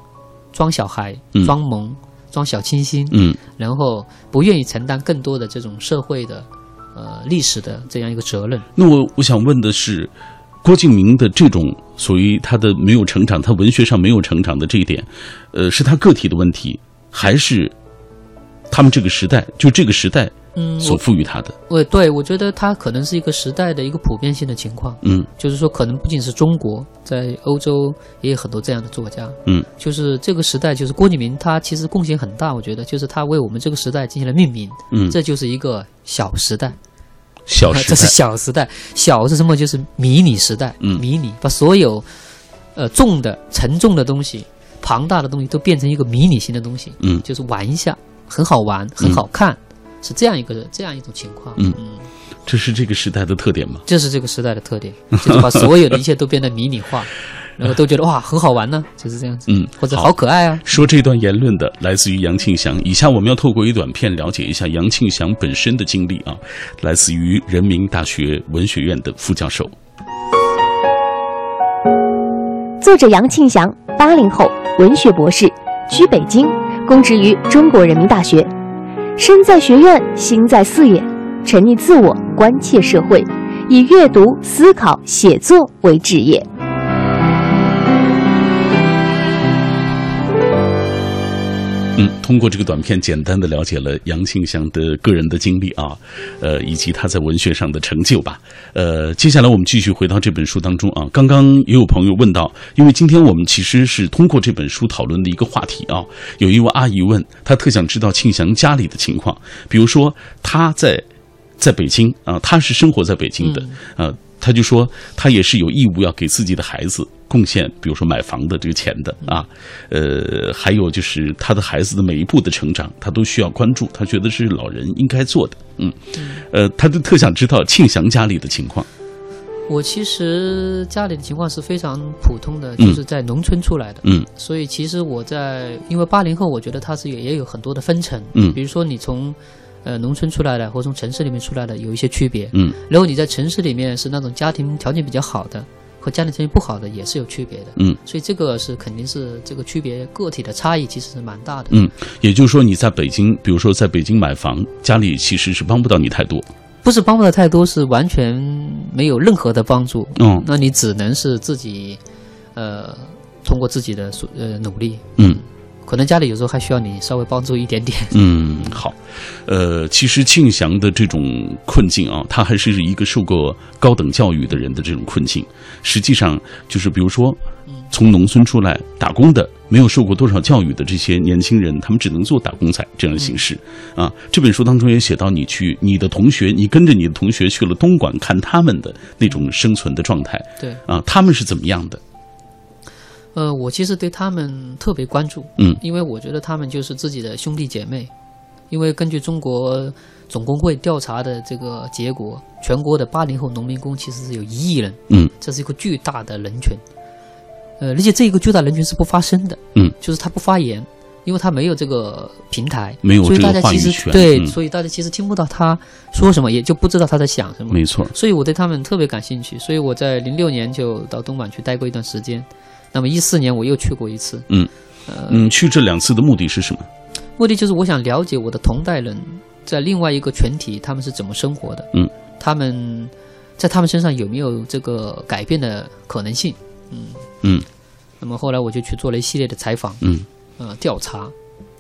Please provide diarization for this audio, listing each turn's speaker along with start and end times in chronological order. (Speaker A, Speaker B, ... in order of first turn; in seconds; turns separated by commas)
Speaker A: 0.5-8.7, Speaker B: 3.1-3.4, Speaker B: 8.8-10.1, Speaker B: 10.6-17.7, Speaker B: 18.7-21.6, Speaker A: 20.6-21.0, Speaker A: 21.7-36.8, Speaker B: 25.0-25.3, Speaker B: 34.9-35.2, Speaker B: 37.5-38.1, Speaker A: 37.6-42.1, Speaker A: 42.8-52.0, Speaker B: 52.5-53.8, Speaker A: 53.9-60.8, Speaker B: 55.1-55.7, Speaker B: 59.5-60.1, Speaker B: 60.6-69.7, Speaker C: 72.8-78.5, Speaker C: 79.2-86.5, Speaker B: 92.0-111.0, Speaker B: 111.6-126.0, Speaker A: 113.4-113.8, Speaker A: 126.2-126.4, Speaker B: 126.5-128.9, Speaker A: 129.7-151.8, Speaker B: 151.7-156.5, Speaker A: 156.8-162.0, Speaker B: 160.2-160.4, Speaker A: 162.6-168.2, Speaker B: 168.1-192.0, Speaker A: 193.3-198.1, Speaker A: 198.7-206.8, Speaker A: 207.8-224.5, Speaker B: 213.0-214.5, Speaker B: 217.7-218.1, Speaker A: 225.1-225.4, Speaker B: 225.3-226.9, Speaker A: 227.4-237.2, Speaker A: 238.2-240.0, Speaker A: 240.6-241.3